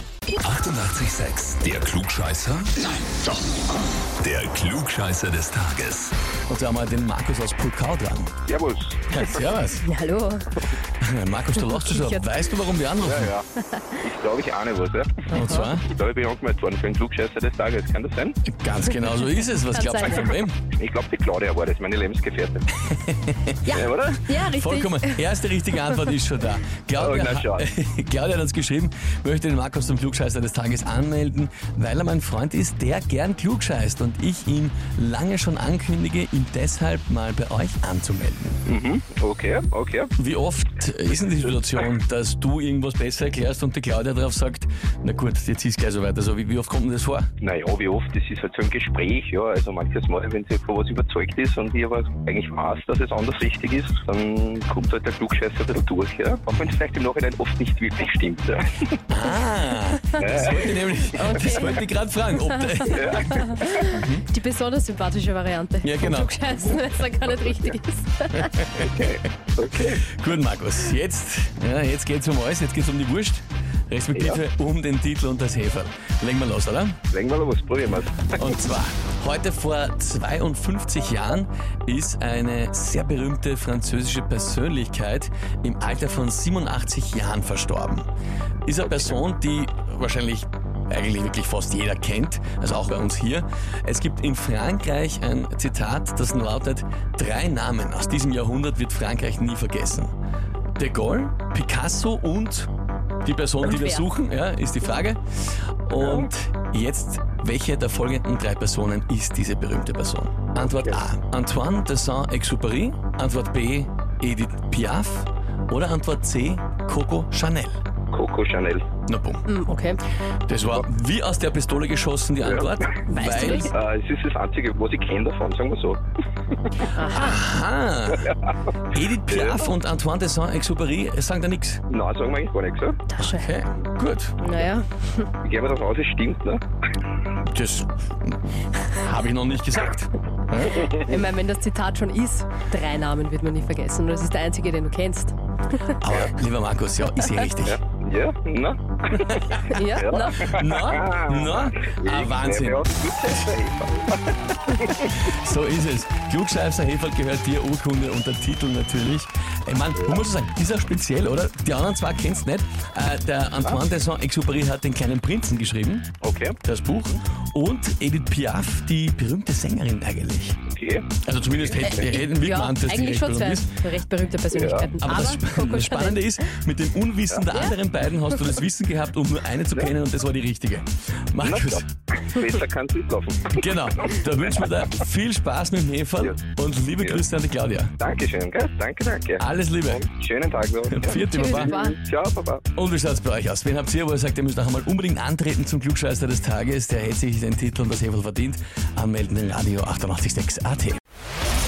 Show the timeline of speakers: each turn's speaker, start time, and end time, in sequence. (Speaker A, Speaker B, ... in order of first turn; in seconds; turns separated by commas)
Speaker A: 0.4-3.4, Speaker A: 4.2-6.1, Speaker B: 6.5-8.3, Speaker C: 8.5-9.4, Speaker B: 9.1-9.8, Speaker D: 9.8-10.6, Speaker B: 11.0-13.3, Speaker D: 11.7-12.3, Speaker C: 13.0-13.5, Speaker D: 13.7-14.0, Speaker C: 14.0-18.4, Speaker B: 15.3-15.9, Speaker D: 15.3-15.7, Speaker B: 18.4-20.6, Speaker D: 19.6-20.4, Speaker C: 20.8-22.7, Speaker B: 22.9-38.6, Speaker D: 23.6-25.3, Speaker C: 23.7-24.3, Speaker C: 27.0-27.7, Speaker C: 38.7-40.1, Speaker B: 40.2-47.3, Speaker C: 47.4-58.9, Speaker B: 59.1-64.2, Speaker C: 60.2-61.4, Speaker D: 61.1-61.9, Speaker D: 62.4-68.8, Speaker C: 63.0-63.8, Speaker B: 65.8-66.8, Speaker B: 68.3-69.1, Speaker C: 68.8-70.0, Speaker B: 69.6-77.0, Speaker C: 74.2-74.4, Speaker C: 77.1-78.3, Speaker B: 78.3-88.1, Speaker B: 88.7-100.1, Speaker C: 88.8-89.2, Speaker B: 100.8-102.7, Speaker B: 103.2-117.8, Speaker D: 103.6-104.0, Speaker C: 106.0-106.3, Speaker C: 110.6-111.0, Speaker C: 118.1-118.8, Speaker B: 119.1-119.5, Speaker D: 119.5-120.0, Speaker B: 120.5-123.7, Speaker C: 122.5-123.0, Speaker D: 123.1-123.7, Speaker C: 123.5-126.0, Speaker C: 126.5-126.9, Speaker D: 126.9-127.4, Speaker B: 127.0-128.3, Speaker B: 128.9-131.8, Speaker C: 129.3-129.7, Speaker C: 131.9-133.0, Speaker D: 133.1-133.5, Speaker B: 133.2-134.5, Speaker D: 134.4-135.3, Speaker C: 135.4-136.6, Speaker B: 137.4-141.0, Speaker D: 140.8-145.9, Speaker B: 146.0-147.8, Speaker C: 147.7-155.2, Speaker B: 149.3-149.8, Speaker D: 149.7-150.5, Speaker B: 150.3-152.9, Speaker B: 155.1-166.1, Speaker C: 166.2-166.6, Speaker B: 166.6-170.6, Speaker C: 170.7-171.1, Speaker B: 171.2-173.7, Speaker D: 171.8-176.3, Speaker C: 174.5-175.0, Speaker B: 175.0-181.9, Speaker C: 181.4-184.7, Speaker B: 183.5-187.9, Speaker C: 188.0-192.7, Speaker B: 189.4-190.0, Speaker B: 190.9-191.7, Speaker D: 191.1-191.9, Speaker B: 192.8-201.0